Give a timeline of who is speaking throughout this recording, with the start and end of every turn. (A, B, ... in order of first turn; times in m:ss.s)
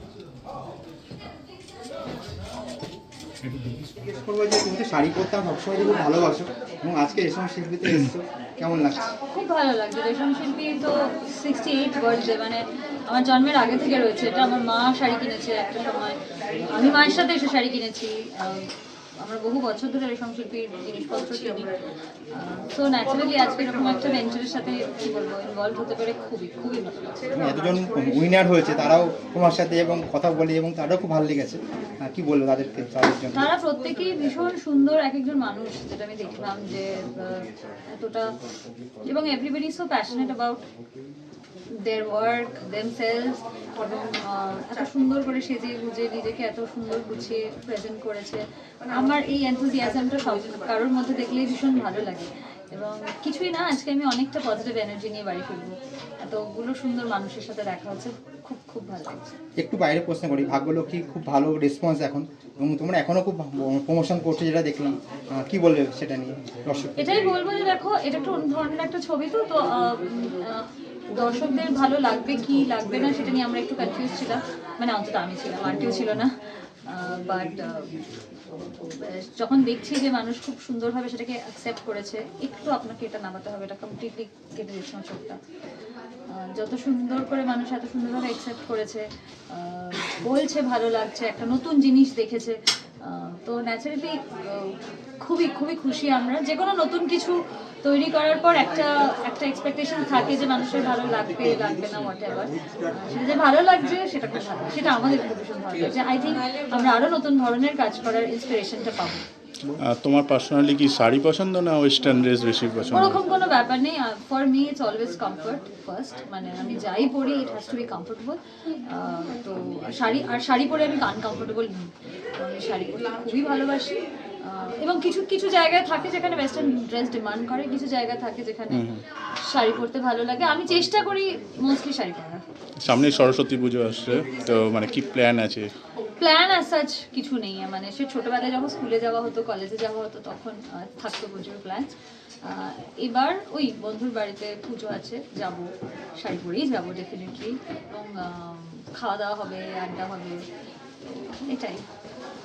0:04.0-0:09.1 A
0:09.2-0:21.7 B
0:22.3-0:27.4 B
0:27.3-0:33.5 A
0:33.3-0:38.3 B
0:39.0-0:40.6 B
0:41.7-0:59.4 B
0:59.6-1:07.3 A
1:07.0-1:18.0 B
1:18.8-1:25.4 B
1:26.3-1:49.2 B
1:49.7-1:53.2 C
1:52.9-2:12.4 B
2:08.7-2:09.0 C
2:12.8-2:15.7 C
2:16.0-2:30.4 B
2:31.0-2:31.9 B